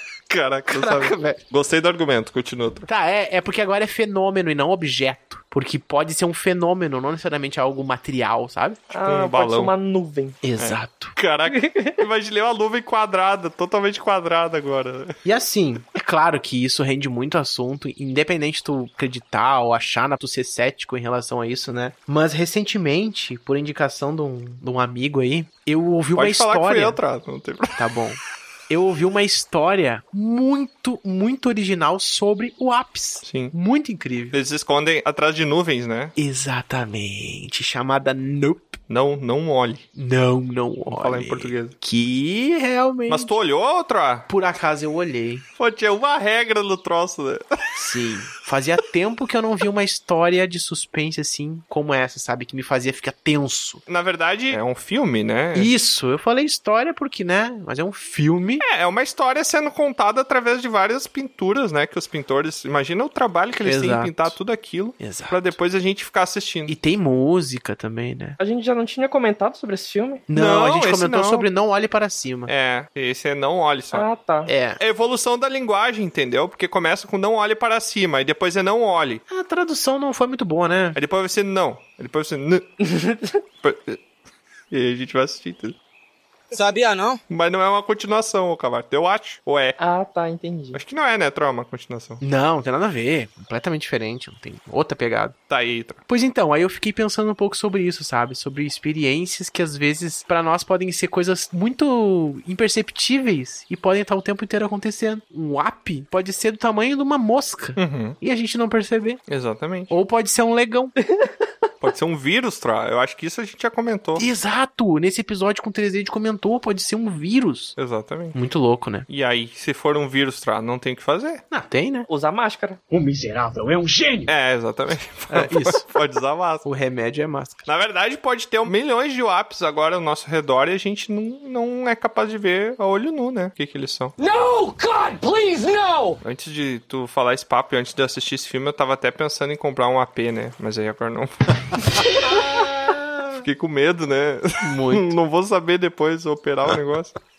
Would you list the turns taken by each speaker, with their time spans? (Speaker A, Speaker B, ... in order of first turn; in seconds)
Speaker A: 0.3-2.9, 9.1-9.7, 10.6-15.1, 26.1-27.8, 33.2-33.5, 34.3-36.1, 38.9-39.9, 40.9-41.8, 43.1-44.3, 45.6-47.4, 53.9-55.7, 58.6-66.8, 70.3-71.5, 72.5-74.1, 74.8-79.2, 81.0-82.7, 83.6-84.0, 84.7-85.8, 87.3-89.8, 90.7-92.2, 95.5-96.0, 107.8-108.2, 109.3-110.0, 111.8-114.3, 117.8-118.3, 119.1-121.4, 124.3-126.7, 127.7-134.2, 136.2-142.7, 143.3-147.2
Speaker B: 0.7-1.4, 2.9-8.8, 10.4-11.2, 15.2-27.0, 27.8-34.4, 36.2-38.8, 40.0-43.4, 44.3-45.4, 47.8-53.8, 55.5-58.6, 63.6-64.3, 65.0-65.5, 66.7-68.4, 70.3-72.5, 74.5-74.8, 79.3-81.0, 92.2-95.3, 96.1-109.2, 109.9-111.0, 114.2-117.8, 118.3-119.1, 121.5-122.1, 125.3-125.8, 126.6-127.7, 142.3-143.0, 144.6-145.2
Speaker C: 8.9-10.4, 11.5-12.0, 68.4-70.2, 73.9-74.5, 82.8-83.4, 89.8-90.8, 122.1-122.8
Speaker D: 86.5-87.2, 122.9-124.3, 134.2-136.1